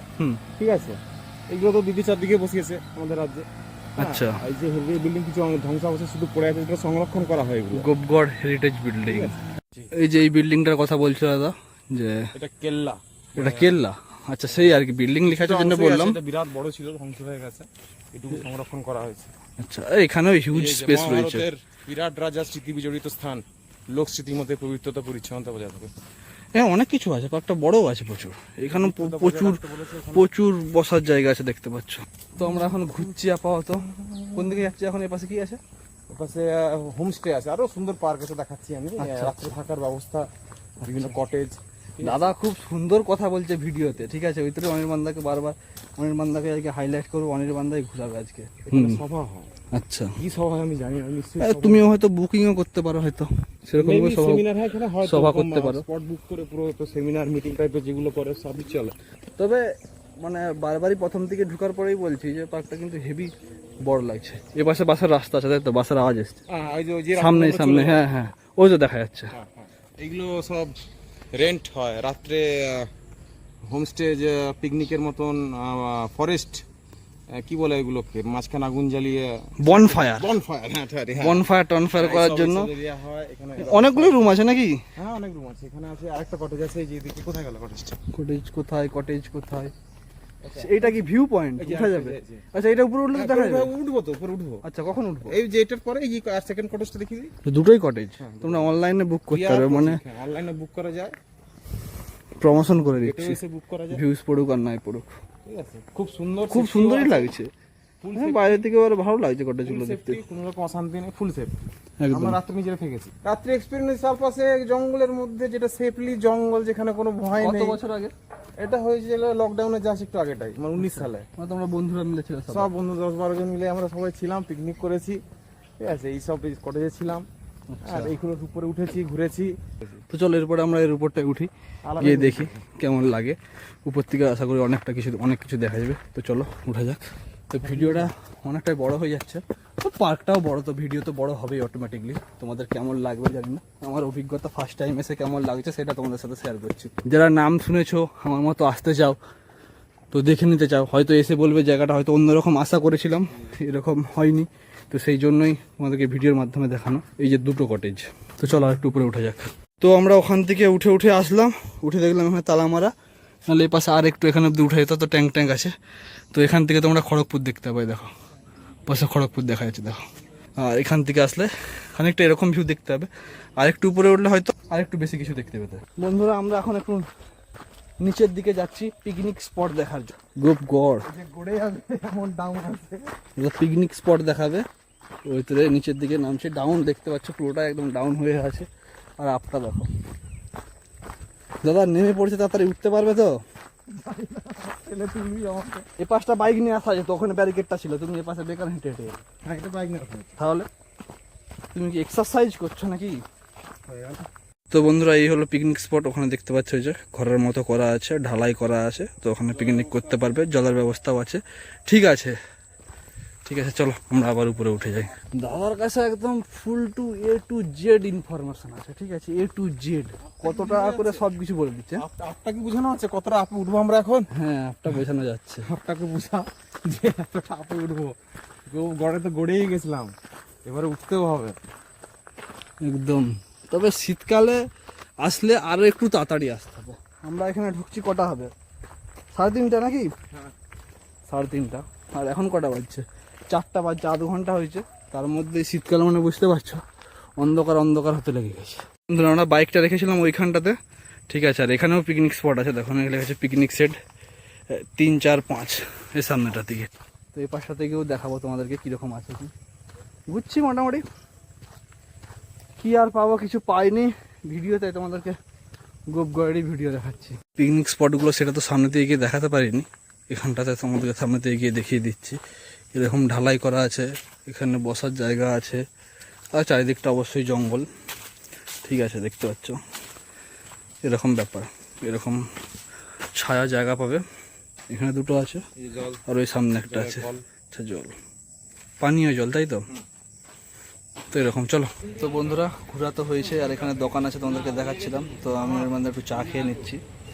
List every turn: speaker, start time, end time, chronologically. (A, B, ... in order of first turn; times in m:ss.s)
0:00.6-0:07.9 A
0:04.0-0:04.4 B
0:07.7-0:09.3 B
0:09.1-0:09.9 A
0:09.9-0:12.3 B
0:12.3-0:13.8 A
0:13.4-0:16.2 B
0:15.2-0:19.3 A
0:19.6-0:21.4 B
0:20.5-0:25.9 A
0:26.5-0:35.6 B
0:28.7-0:30.3 A
0:32.4-0:33.0 A
0:33.8-0:34.7 A
0:36.1-0:40.3 A
0:39.0-0:39.5 B
0:40.8-0:42.3 A
0:40.8-0:41.1 B
0:42.0-0:49.0 B
0:48.7-0:49.5 A
0:49.7-0:50.1 B
0:50.2-0:51.9 A
0:51.4-0:54.4 B
0:53.8-0:58.9 A
0:55.0-0:55.8 B
0:59.4-0:59.6 B
1:00.2-1:03.3 B
1:03.8-1:06.4 B
1:06.5-1:08.0 A
1:07.2-1:09.3 B
1:09.3-1:10.7 A
1:11.3-1:12.9 A
1:13.7-1:16.6 A
1:17.3-1:24.3 A
1:19.6-1:20.3 B
1:21.2-1:22.7 B
1:23.6-1:24.8 B
1:25.0-1:28.0 A
1:28.1-1:29.7 B
1:30.4-1:32.4 A
1:30.5-1:33.7 B
1:33.1-1:34.6 A
1:34.6-1:35.4 B
1:35.3-1:37.3 A
1:37.4-1:40.0 B
1:38.2-1:38.8 A
1:39.3-1:41.1 A
1:42.4-1:43.4 B
1:42.8-1:44.0 A
1:43.9-1:45.0 B
1:45.4-1:47.3 A
1:46.5-1:47.5 B
1:48.0-1:48.7 A
1:48.1-1:50.2 B
1:49.6-1:51.6 A
1:52.0-1:52.4 B
1:52.1-1:57.8 A
1:57.4-1:58.1 B
1:58.6-2:01.3 A
2:00.8-2:02.7 B
2:02.5-2:05.2 A
2:05.8-2:07.2 A
2:07.7-2:08.1 B
2:07.8-2:10.0 A
2:10.1-2:29.2 B
2:11.8-2:12.6 A
2:17.6-2:18.1 A
2:30.1-2:42.9 B
2:43.5-2:45.7 B
2:46.3-2:48.1 B
2:48.9-2:50.0 B
2:50.6-2:57.0 B
2:58.0-3:01.1 B
3:01.0-3:03.1 A
3:03.4-3:04.6 B
3:05.2-3:08.7 B
3:09.2-3:09.9 B
3:11.6-3:13.4 B
3:13.9-3:15.8 A
3:16.0-3:19.2 B
3:19.4-3:20.4 A
3:20.4-3:20.7 B
3:21.7-3:23.2 B
3:23.9-3:24.3 A
3:24.7-3:32.3 B
3:33.4-3:42.0 B
3:40.4-3:41.3 A
3:42.0-3:44.3 A
3:44.3-3:45.7 B
3:45.6-3:48.2 A
3:48.7-3:50.1 A
3:50.6-3:51.6 A
3:52.8-3:54.6 B
3:55.2-3:58.5 B
3:59.3-4:00.1 B
4:01.3-4:06.8 B
4:07.4-4:10.8 B
4:11.3-4:14.0 B
4:14.7-4:19.5 B
4:20.3-4:21.0 B
4:22.8-4:25.4 B
4:26.1-4:32.4 B
4:32.9-4:35.8 B
4:36.5-4:37.9 B
4:38.8-4:39.8 B
4:41.0-4:42.4 B
4:43.3-4:44.2 B
4:44.9-4:45.6 B
4:45.8-4:46.2 A
4:46.2-4:48.1 B
4:46.8-4:47.4 A
4:49.0-4:49.9 B
4:51.3-4:57.0 B